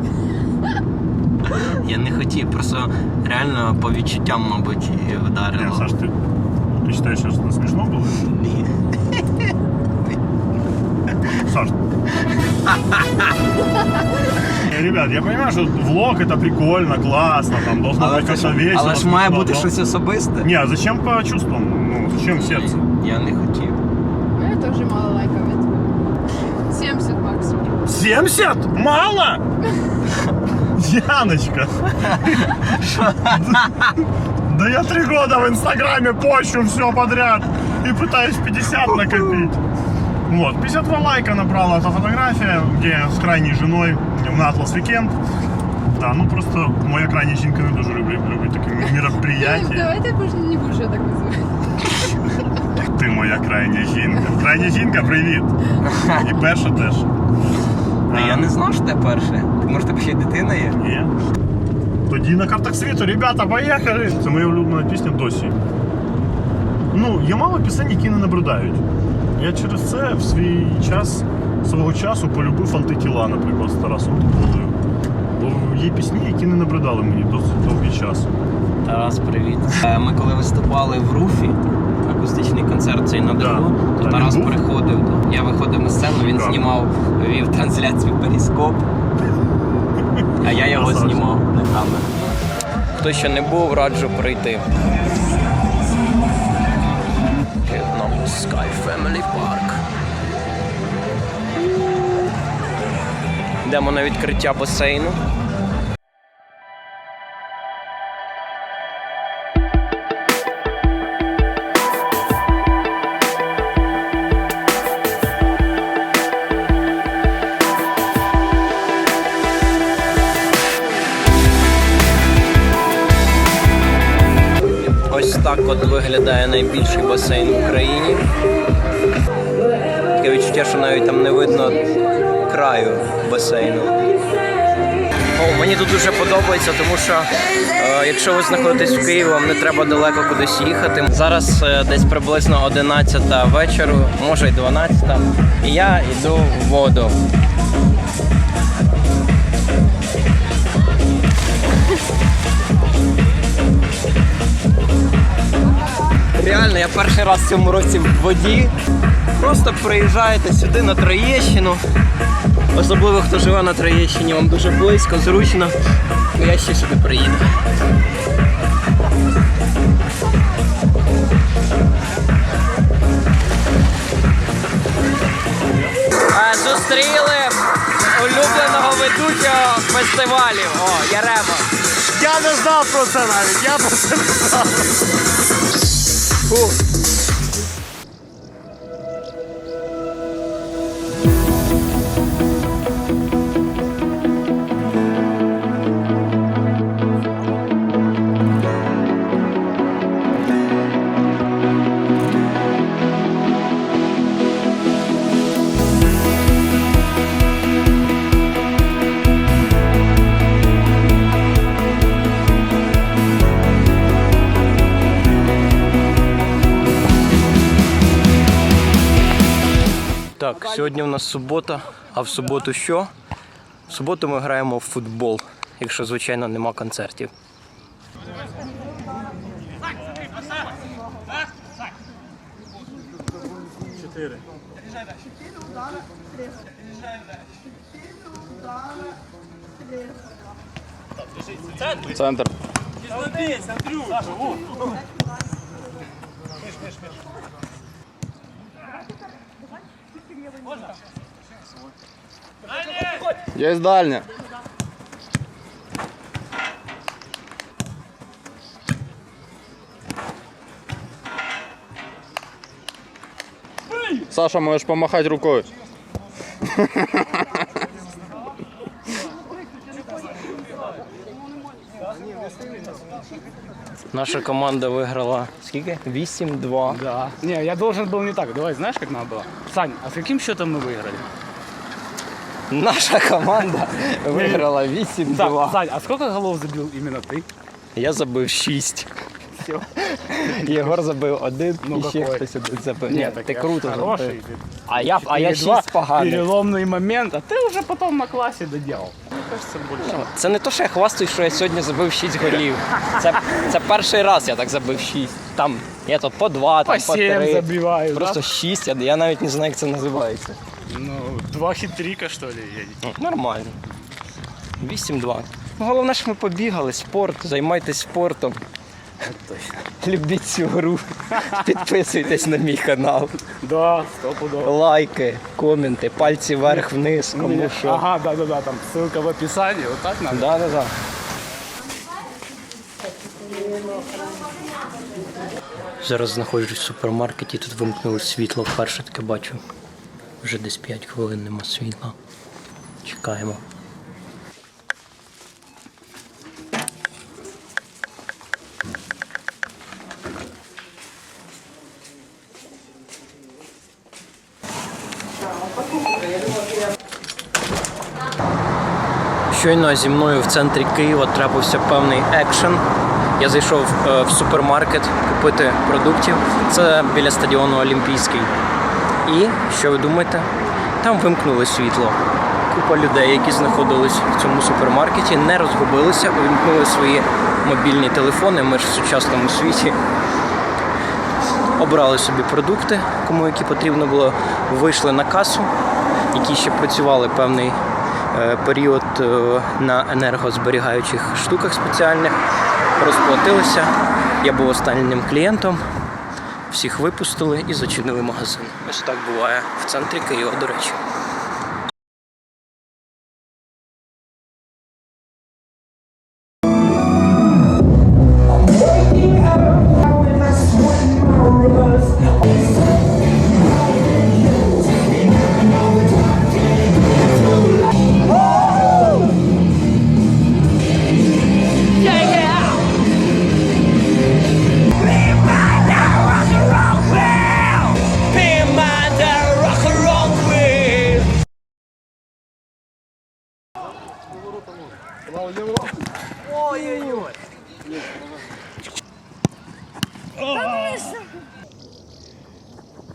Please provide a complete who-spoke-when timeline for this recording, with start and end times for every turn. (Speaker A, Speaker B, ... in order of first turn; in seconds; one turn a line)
Speaker A: 1.5-5.9
Speaker B: 5.5-6.1
Speaker B: 6.8-8.2
Speaker A: 8.2-8.7
Speaker B: 11.4-11.8
Speaker B: 14.6-19.7
Speaker A: 17.9-20.5
Speaker B: 20.4-22.8
Speaker A: 22.3-23.8
Speaker C: 24.4-26.0
Speaker C: 26.7-27.8
Speaker B: 27.9-29.4
Speaker B: 30.7-32.5
Speaker A: 32.0-33.7
Speaker B: 33.2-33.9
Speaker B: 34.5-39.6
Speaker A: 38.9-39.5
Speaker B: 40.3-45.2
Speaker B: 45.9-50.0
Speaker C: 49.3-51.5
Speaker B: 52.8-55.5
Speaker A: 55.8-56.3
Speaker B: 56.1-57.1
Speaker B: 58.1-58.5
Speaker A: 58.1-60.8
Speaker B: 60.7-61.1
Speaker B: 62.1-65.6
Speaker B: 66.9-68.8
Speaker B: 69.3-74.8
Speaker B: 75.3-78.3
Speaker A: 78.8-88.9
Speaker B: 83.4-84.6
Speaker B: 86.1-86.6
Speaker B: 90.1-91.2
Speaker A: 90.4-92.1
Speaker A: 93.0-94.7
Speaker A: 97.6-99.8
Speaker A: 103.6-105.2
Speaker A: 125.0-128.3
Speaker A: 130.1-131.9
Speaker A: 132.4-134.0
Speaker A: 135.3-147.2
Speaker A: 156.3-158.7
Speaker A: 159.4-161.8
Speaker A: 162.7-165.7
Speaker A: 166.3-167.5
Speaker A: 176.3-181.7
Speaker B: 182.1-184.9
Speaker A: 186.5-186.7
Speaker A: 220.4-223.1
Speaker A: 223.9-227.3
Speaker D: 242.0-242.5
Speaker D: 253.5-254.3
Speaker D: 264.2-265.7
Speaker D: 266.8-267.2
Speaker A: 274.1-277.0
Speaker E: 276.9-281.3
Speaker A: 282.7-285.8
Speaker E: 284.3-284.7
Speaker E: 285.2-287.4
Speaker A: 287.9-289.1
Speaker A: 289.8-296.5
Speaker E: 290.4-290.9
Speaker E: 291.8-292.5
Speaker E: 293.1-300.3
Speaker A: 300.0-310.6
Speaker E: 306.9-308.4
Speaker E: 310.9-313.0
Speaker A: 313.0-313.8
Speaker A: 314.8-318.6
Speaker E: 319.2-319.8
Speaker A: 319.8-323.4
Speaker E: 323.6-324.7
Speaker A: 324.6-328.0
Speaker E: 326.6-330.5
Speaker A: 330.3-330.9
Speaker A: 336.0-339.6
Speaker A: 340.4-342.1
Speaker A: 343.0-343.6
Speaker A: 359.5-362.8
Speaker A: 363.4-368.5
Speaker A: 369.2-370.5
Speaker A: 371.0-380.0
Speaker A: 381.8-385.7
Speaker A: 386.3-387.8
Speaker A: 388.3-392.4
Speaker A: 392.9-395.8
Speaker A: 396.7-401.0
Speaker A: 422.0-422.7
Speaker A: 425.1-431.3
Speaker A: 436.4-437.4
Speaker A: 440.6-441.0